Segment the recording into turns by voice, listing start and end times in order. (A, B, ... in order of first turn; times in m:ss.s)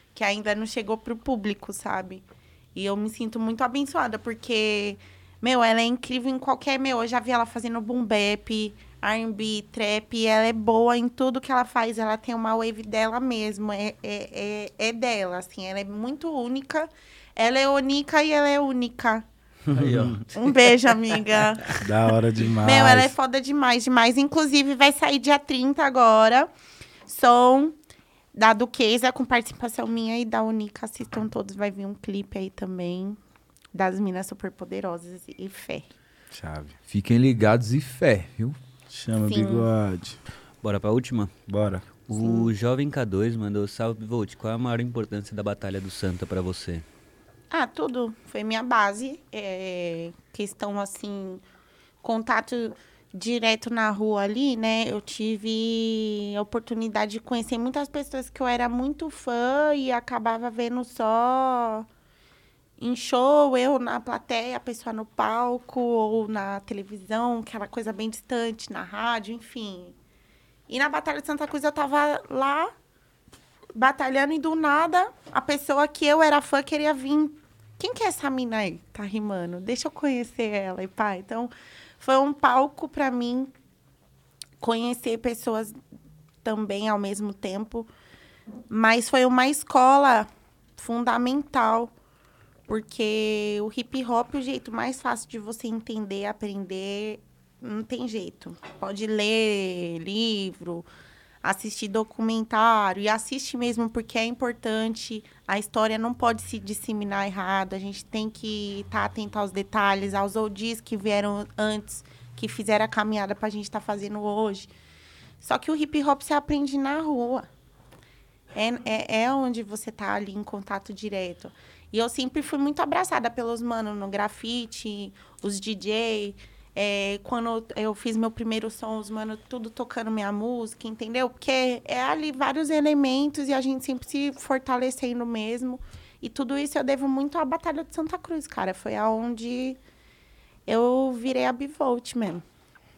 0:00.1-0:19.2 A
0:19.7-0:20.2 B
0:19.7-0:20.5 C
0:20.3-0:21.8 A
0:21.8-0:23.1 B
0:22.6-0:26.5 A
0:27.0-0:27.8 A
0:28.3-0:33.2 A
0:33.7-0:35.8 A
0:36.3-0:36.7 B
0:36.9-0:38.6 C
0:38.9-0:40.2 B
0:39.3-0:39.7 A
0:40.6-0:41.4 D
0:41.5-0:41.8 B
0:42.1-0:46.8 D
0:42.1-0:42.5 A
0:47.5-0:51.4 A
0:52.0-1:01.9 A
1:02.8-1:09.9 A
1:10.7-1:12.7 A
1:13.7-1:23.5 A
1:24.6-1:25.8 A
1:26.4-1:27.9 A
1:28.7-1:31.9 A
1:32.7-1:40.9 A
1:41.4-1:54.7 A
1:55.4-1:57.5 A
1:58.5-2:19.8 A
2:20.7-2:22.4 A